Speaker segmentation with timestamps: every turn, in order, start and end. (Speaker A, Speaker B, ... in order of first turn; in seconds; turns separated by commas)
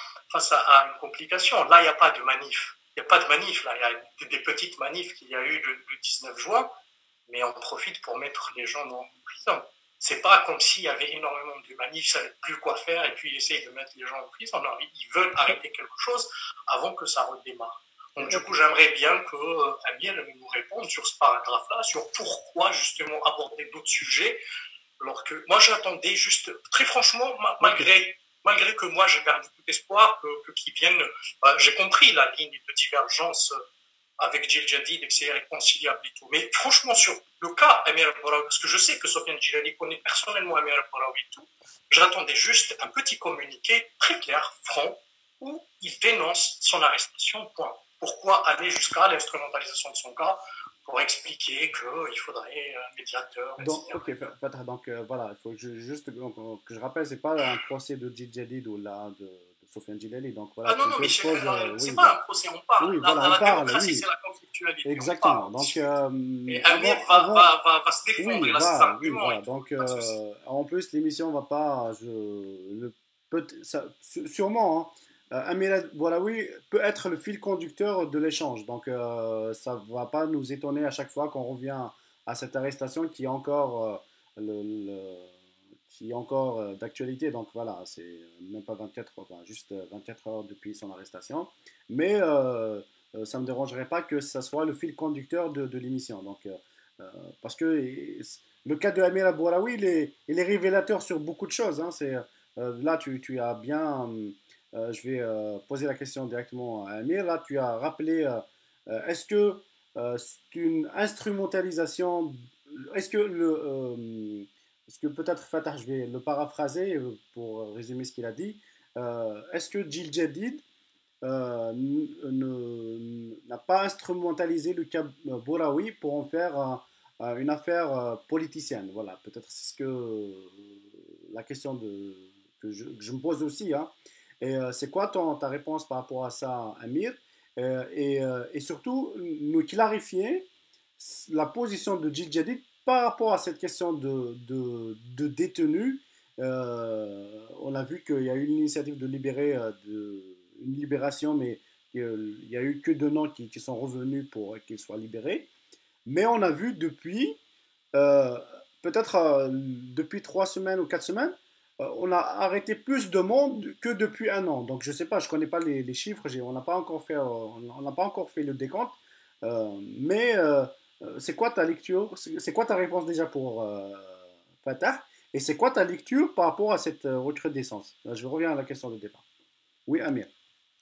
Speaker A: 0.3-6.7, Speaker A: 7.3-24.4, Speaker B: 18.2-18.5, Speaker A: 25.0-33.6, Speaker B: 27.6-27.9, Speaker A: 34.2-54.2, Speaker B: 53.6-62.1, Speaker A: 60.6-70.2, Speaker B: 62.8-64.0, Speaker B: 64.8-67.5, Speaker B: 68.2-85.3, Speaker B: 85.9-120.6, Speaker B: 121.2-140.5, Speaker B: 141.0-155.5, Speaker B: 156.1-157.4, Speaker B: 157.9-179.2, Speaker B: 179.9-180.3